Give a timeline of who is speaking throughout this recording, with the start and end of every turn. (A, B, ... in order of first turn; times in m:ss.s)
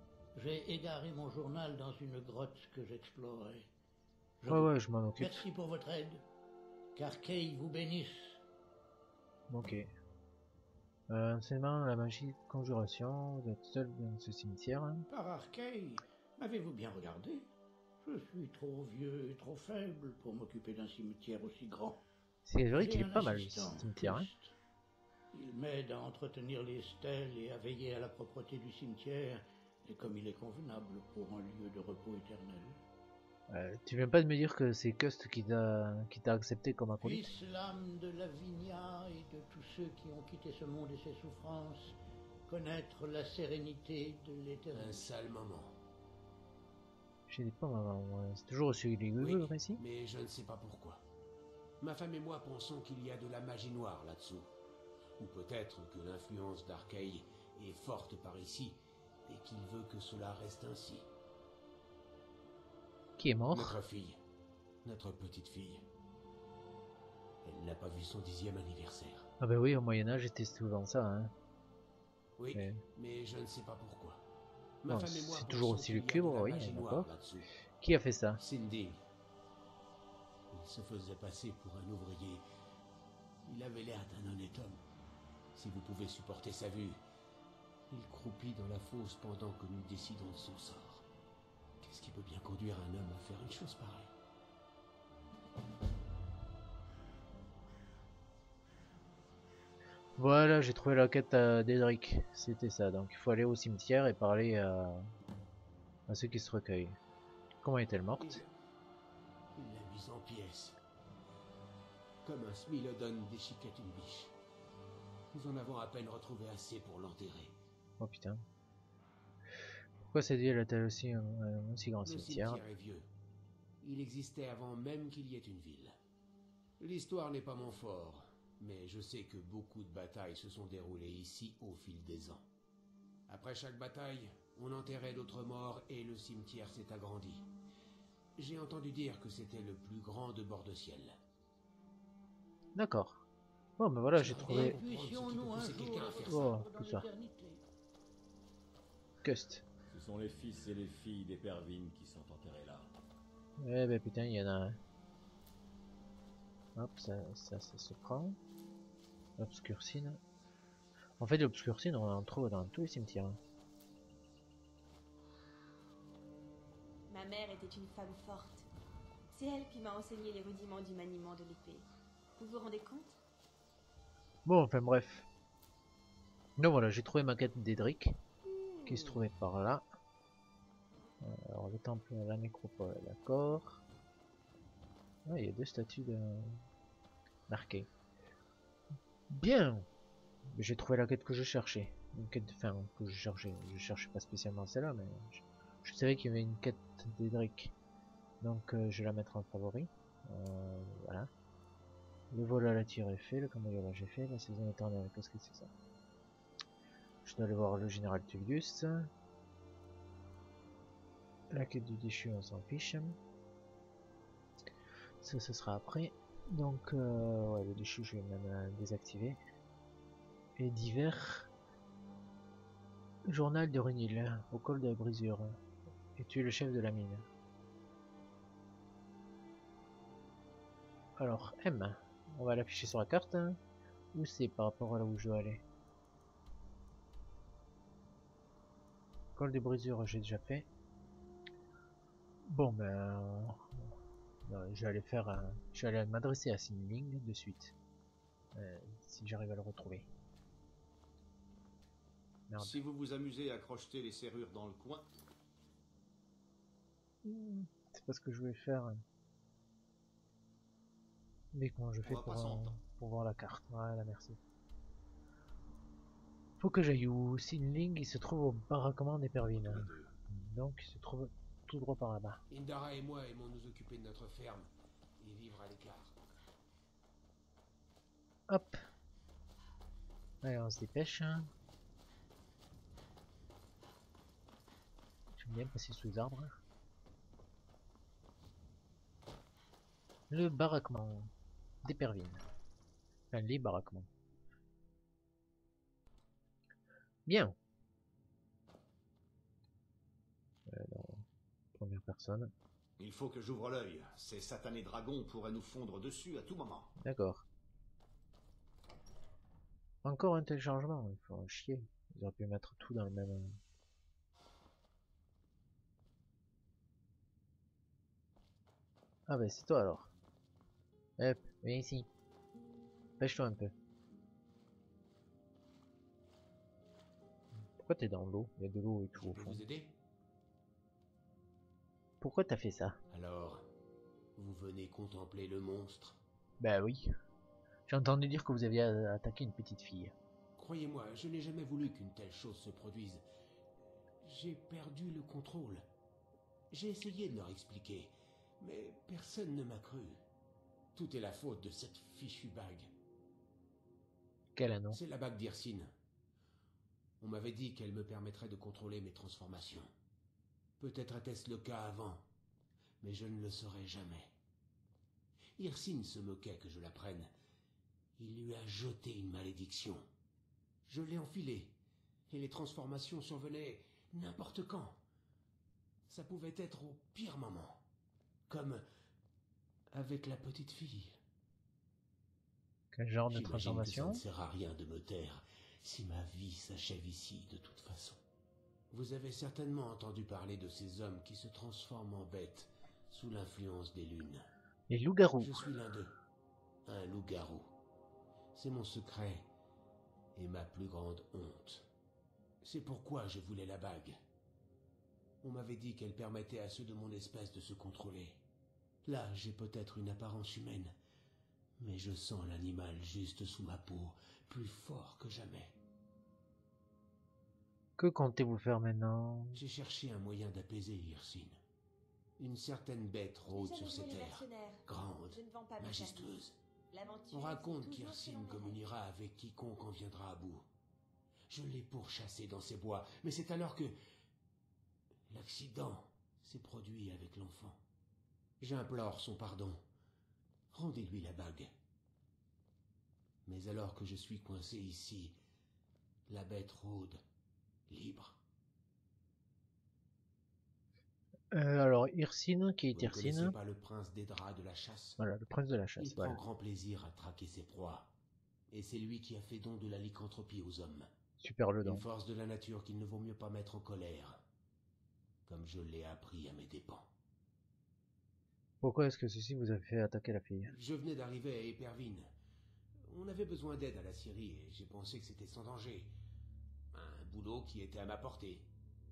0:00.3-0:03.6 A
0:04.4-0:06.2 A
0:04.5-0:05.4 B
0:06.9-0:08.4 A
0:09.5-0:09.9 B
0:11.1-0:15.0 B
0:15.1-0:17.5 A
0:18.0-0:22.0 A
0:22.4-0:24.3 B
0:22.7-0:24.5 A
0:25.3-0:32.8 A
0:33.5-0:37.3 B
0:37.0-0:41.9 A
0:42.5-0:45.1 A
0:44.7-0:45.8 C
0:47.3-0:49.8 B
0:49.2-0:51.0 C
0:51.8-0:54.5 C
0:55.2-1:01.1 C
1:03.2-1:03.8 B
1:03.5-1:04.2 C
1:04.8-1:05.8 C
1:07.4-1:09.3 C
1:09.4-1:11.3 B
1:12.4-1:14.2 C
1:12.5-1:12.8 B
1:14.8-1:17.5 C
1:14.9-1:17.1 B
1:17.8-1:18.4 B
1:18.4-1:19.0 C
1:20.5-1:22.4 C
1:23.4-1:24.8 C
1:25.5-1:27.0 C
1:27.9-1:31.0 C
1:31.8-1:34.1 C
1:40.2-1:45.0 B
1:46.1-1:47.0 B
1:47.6-1:48.4 B
1:48.1-1:48.5 C
1:49.5-1:50.8 C
1:52.2-1:54.3 C
1:55.3-1:57.5 C
1:58.0-1:58.4 B
2:00.1-2:02.6 B
2:02.0-2:03.1 C
2:03.8-2:06.0 C
2:06.8-2:12.4 C
2:13.3-2:17.5 C
2:18.4-2:21.1 C
2:22.7-2:23.2 B
2:23.8-2:24.8 B
2:24.1-2:26.5 C
2:24.4-2:27.6 A
2:26.2-2:27.1 B
2:29.2-2:29.6 B
2:29.9-2:32.9 D
2:33.6-2:34.8 B
2:36.8-2:38.4 B
2:39.4-2:40.2 B
2:41.2-2:43.4 B
2:47.1-2:48.6 E
2:49.3-2:51.8 E
2:52.4-2:53.2 E
2:54.4-2:55.3 B
2:56.6-2:58.1 B
2:58.8-2:59.8 B
3:01.2-3:03.8 B
3:05.2-3:06.6 B
3:07.5-3:07.9 B
3:09.3-3:09.8 B
3:10.5-3:17.7 B
3:18.4-3:21.3 B
3:22.3-3:25.7 B
3:27.2-3:29.1 B
3:31.5-3:33.2 B
3:35.2-3:39.4 B
3:40.6-3:41.5 B
3:43.3-3:45.6 B
3:46.2-3:47.3 B
3:51.2-3:53.6 B
3:54.1-3:55.6 B
3:59.4-4:00.7 B
4:02.5-4:03.7 B
4:04.5-4:07.7 B
4:08.5-4:10.1 B
4:12.5-4:12.8 B
4:12.6-4:15.0 F
4:17.2-4:19.0 B
4:21.5-4:24.4 B
4:22.0-4:22.7 F
4:26.6-4:32.4 B
4:29.5-4:30.1 C
4:32.5-4:36.2 C
4:38.5-4:38.8 B
4:40.4-4:41.5 B
4:45.4-4:46.6 B
4:50.3-4:51.3 B
4:51.8-4:52.4 B
4:53.3-4:54.1 B
4:57.3-4:57.5 B
5:00.7-5:02.5 B
5:03.0-5:06.9 F
5:07.0-5:07.4 B
5:10.0-5:13.6 B
5:19.3-5:20.1 B
5:21.2-5:22.1 B
5:23.2-5:23.7 B
5:27.7-5:29.6 B
5:29.1-5:29.9 C
5:32.2-5:33.0 B
5:33.1-5:33.7 C
5:34.4-5:36.2 C
5:36.6-5:37.1 B
5:37.9-5:40.1 B
5:40.6-5:43.2 C
5:44.2-5:45.8 C
5:46.7-5:50.2 C
5:50.9-5:52.9 C
5:54.5-5:55.0 B
5:54.9-5:55.9 C
5:57.2-5:59.9 C
6:00.8-6:02.2 C
6:03.0-6:04.3 C
6:05.6-6:07.3 C
6:08.2-6:10.0 C
6:10.8-6:11.8 C
6:12.3-6:15.0 C
6:16.1-6:17.8 C
6:18.5-6:18.8 C
6:19.9-6:21.2 C
6:22.9-6:24.2 B
6:23.3-6:28.2 C
6:28.9-6:34.5 C
6:34.9-6:35.6 B
6:35.4-6:36.1 C
6:36.8-6:37.7 C
6:38.5-6:39.5 C
6:40.3-6:41.9 C
6:42.6-6:44.2 C
6:45.4-6:48.4 C
6:49.0-6:50.9 C
6:51.8-6:55.7 C
6:58.0-6:59.6 B
6:59.5-7:01.6 C
7:02.4-7:06.6 C
7:03.5-7:06.4 E
7:06.9-7:08.8 E
7:07.3-7:10.6 C
7:11.5-7:13.9 C
7:15.3-7:17.8 C
7:18.6-7:19.8 C
7:20.7-7:21.7 C
7:23.4-7:25.4 C
7:26.3-7:27.2 C
7:27.9-7:28.4 C
7:31.5-7:33.6 B
7:32.9-7:35.2 C
7:35.2-7:36.4 B
7:36.0-7:38.1 C
7:38.7-7:41.1 C
7:41.4-7:42.0 B
7:41.8-7:44.4 C
7:45.5-7:47.1 C
7:48.8-7:50.7 B
7:50.7-7:52.3 C
7:53.1-7:56.1 C
7:56.9-7:58.7 C